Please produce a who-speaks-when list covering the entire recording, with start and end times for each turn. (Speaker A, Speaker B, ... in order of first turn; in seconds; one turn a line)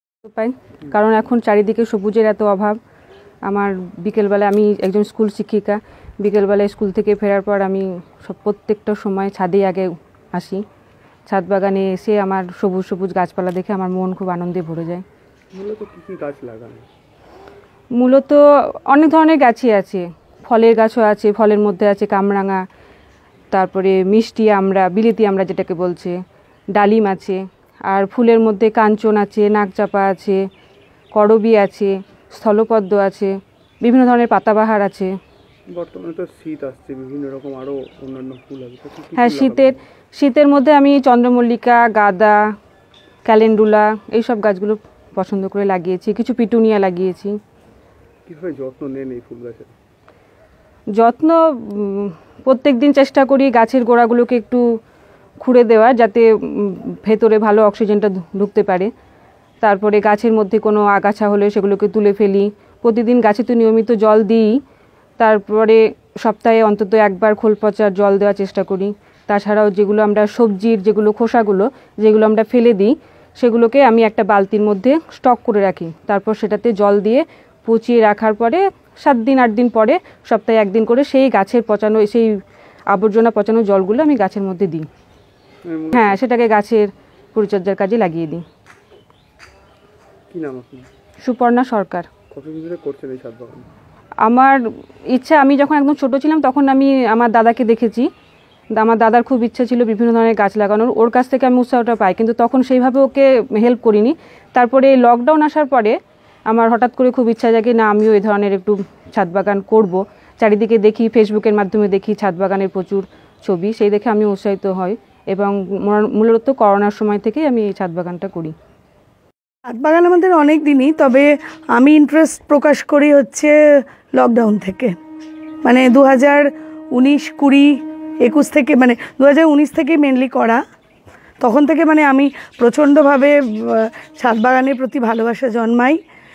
Speaker A: 0.3-2.8
Speaker A: 3.5-10.6
Speaker A: 11.3-15.0
Speaker B: 15.6-16.7
Speaker A: 18.0-22.6
Speaker A: 23.5-26.1
Speaker A: 26.7-30.4
Speaker A: 31.1-35.1
Speaker B: 35.8-39.5
Speaker A: 39.1-42.4
Speaker A: 43.2-47.3
Speaker B: 48.4-49.7
Speaker A: 51.0-54.6
Speaker A: 55.4-58.9
Speaker A: 59.6-64.5
Speaker A: 65.2-82.3
Speaker A: 82.9-84.8
Speaker A: 85.9-88.4
Speaker A: 91.2-92.1
Speaker B: 92.4-93.6
Speaker A: 94.2-94.6
Speaker A: 95.1-98.1
Speaker A: 98.8-106.0
Speaker A: 106.5-118.5
Speaker C: 119.7-123.5
Speaker C: 124.2-124.9
Speaker C: 125.6-127.7
Speaker C: 128.2-130.6
Speaker C: 131.4-136.0